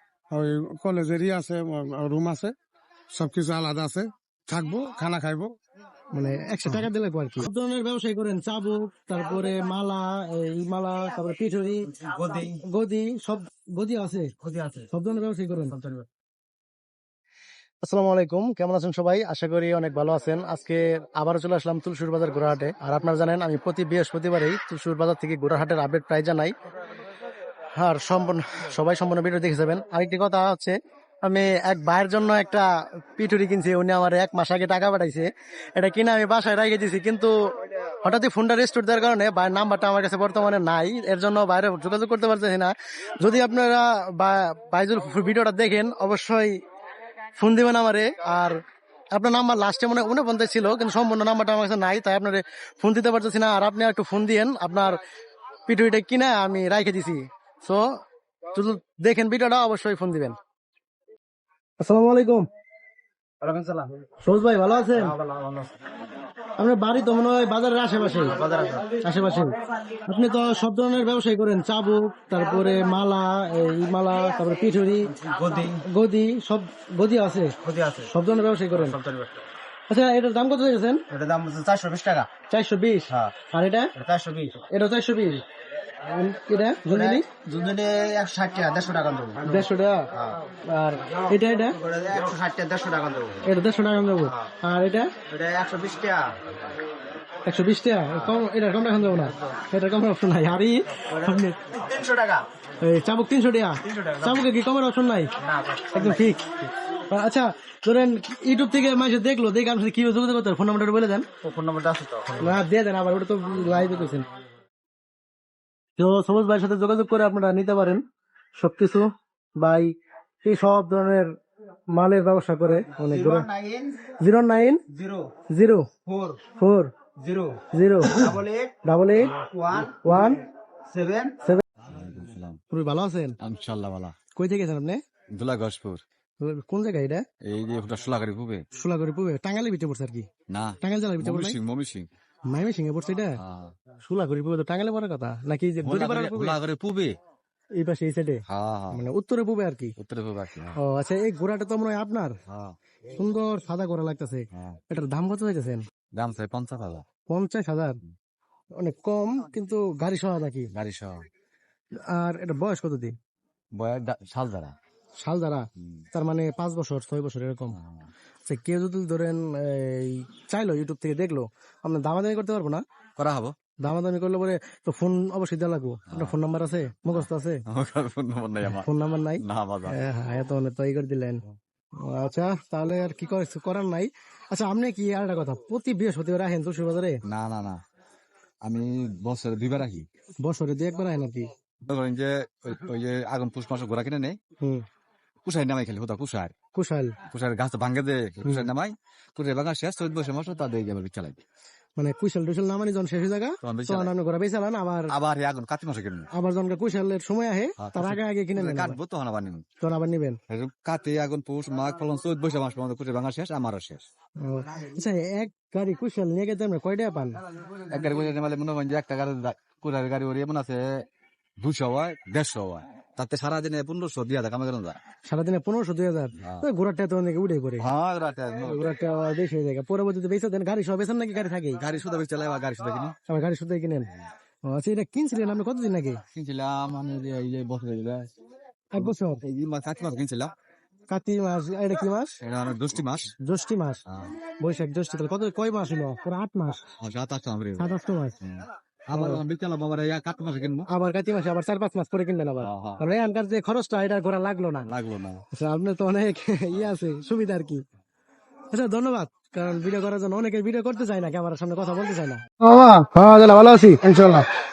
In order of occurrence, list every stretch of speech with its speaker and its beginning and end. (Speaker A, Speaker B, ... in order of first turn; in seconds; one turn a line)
Speaker A: 0.3-2.5
Speaker A: 3.1-5.5
Speaker B: 6.1-12.0
Speaker C: 12.0-12.6
Speaker B: 12.6-14.3
Speaker C: 14.4-14.9
Speaker B: 14.9-15.8
Speaker C: 15.6-16.1
Speaker B: 17.8-26.5
Speaker B: 27.8-37.3
Speaker B: 38.0-46.6
Speaker B: 47.4-48.6
Speaker B: 49.1-55.0
Speaker B: 55.7-57.8
Speaker B: 58.5-60.4
Speaker B: 61.8-62.5
Speaker C: 63.4-64.0
Speaker B: 64.2-65.2
Speaker C: 65.0-65.8
Speaker B: 66.6-68.4
Speaker C: 68.2-69.0
Speaker B: 69.0-75.1
Speaker C: 75.2-75.8
Speaker B: 75.8-77.5
Speaker C: 77.6-78.1
Speaker B: 78.1-79.0
Speaker C: 78.8-79.4
Speaker B: 79.9-81.0
Speaker C: 81.1-82.3
Speaker B: 82.5-83.9
Speaker C: 84.0-84.6
Speaker B: 84.7-85.4
Speaker B: 86.0-87.3
Speaker C: 86.9-89.6
Speaker B: 89.4-90.1
Speaker B: 90.7-91.8
Speaker C: 91.8-93.4
Speaker B: 93.4-95.1
Speaker C: 95.3-96.4
Speaker B: 97.5-101.6
Speaker C: 101.1-102.5
Speaker B: 102.8-105.3
Speaker C: 103.9-104.3
Speaker C: 105.4-106.4
Speaker B: 105.9-106.5
Speaker B: 107.1-111.3
Speaker C: 111.4-112.5
Speaker B: 112.4-114.2
Speaker B: 116.0-118.0
Speaker B: 118.6-119.9
Speaker B: 120.4-121.3
Speaker B: 121.9-123.5
Speaker C: 122.9-124.0
Speaker B: 124.2-124.8
Speaker C: 124.9-125.3
Speaker B: 125.5-125.9
Speaker C: 126.0-126.4
Speaker B: 126.5-126.9
Speaker C: 127.2-127.6
Speaker B: 127.7-128.3
Speaker C: 128.2-128.8
Speaker B: 128.8-130.4
Speaker C: 129.4-130.3
Speaker C: 130.9-131.4
Speaker D: 131.8-132.6
Speaker B: 132.7-133.4
Speaker D: 133.4-134.1
Speaker B: 134.3-135.0
Speaker D: 135.3-136.0
Speaker B: 136.4-137.2
Speaker D: 137.4-138.6
Speaker B: 138.7-140.3
Speaker D: 140.5-142.1
Speaker B: 140.8-141.6
Speaker B: 142.5-143.4
Speaker D: 143.4-143.7
Speaker B: 144.0-146.6
Speaker D: 145.8-147.2
Speaker B: 147.8-149.9
Speaker D: 148.5-149.0
Speaker D: 150.0-150.8
Speaker B: 150.8-152.3
Speaker D: 152.5-152.8
Speaker B: 153.1-155.8
Speaker D: 154.5-154.8
Speaker D: 156.1-157.0
Speaker B: 157.3-158.0
Speaker B: 158.8-160.7
Speaker D: 160.7-161.2
Speaker B: 162.1-163.1
Speaker D: 163.7-164.7
Speaker B: 165.2-167.8
Speaker D: 167.7-168.1
Speaker B: 168.4-172.8
Speaker D: 173.2-173.5
Speaker B: 173.8-177.6
Speaker D: 176.1-176.4
Speaker D: 177.1-178.9
Speaker B: 178.6-181.4
Speaker D: 179.4-180.0
Speaker B: 182.0-187.2
Speaker D: 187.2-187.8
Speaker D: 188.6-190.1
Speaker B: 190.4-191.5
Speaker D: 191.8-194.4
Speaker D: 195.4-196.5
Speaker B: 196.7-197.2
Speaker D: 197.3-201.4
Speaker B: 202.0-205.1
Speaker D: 203.6-204.1
Speaker D: 205.1-206.3
Speaker B: 206.3-209.0
Speaker D: 207.8-209.6
Speaker B: 209.8-210.4
Speaker D: 210.5-214.0
Speaker B: 214.4-217.4
Speaker D: 217.9-221.1
Speaker D: 221.6-225.0
Speaker B: 225.2-227.8
Speaker D: 226.4-226.7
Speaker D: 227.8-228.8
Speaker B: 228.6-231.8
Speaker D: 231.8-233.2
Speaker B: 233.3-234.1
Speaker B: 234.7-236.2
Speaker D: 236.3-238.3
Speaker B: 238.9-239.4
Speaker D: 239.0-240.5
Speaker B: 241.1-242.3
Speaker D: 242.4-243.3
Speaker B: 243.4-244.0
Speaker D: 244.1-244.3
Speaker B: 244.6-246.8
Speaker D: 247.0-250.9
Speaker B: 247.8-248.4
Speaker B: 249.1-249.4
Speaker B: 250.9-254.9
Speaker D: 252.6-253.0
Speaker D: 254.9-255.4
Speaker B: 255.5-257.8
Speaker B: 258.7-262.4
Speaker A: 262.6-263.1
Speaker B: 263.1-264.0
Speaker A: 264.0-264.5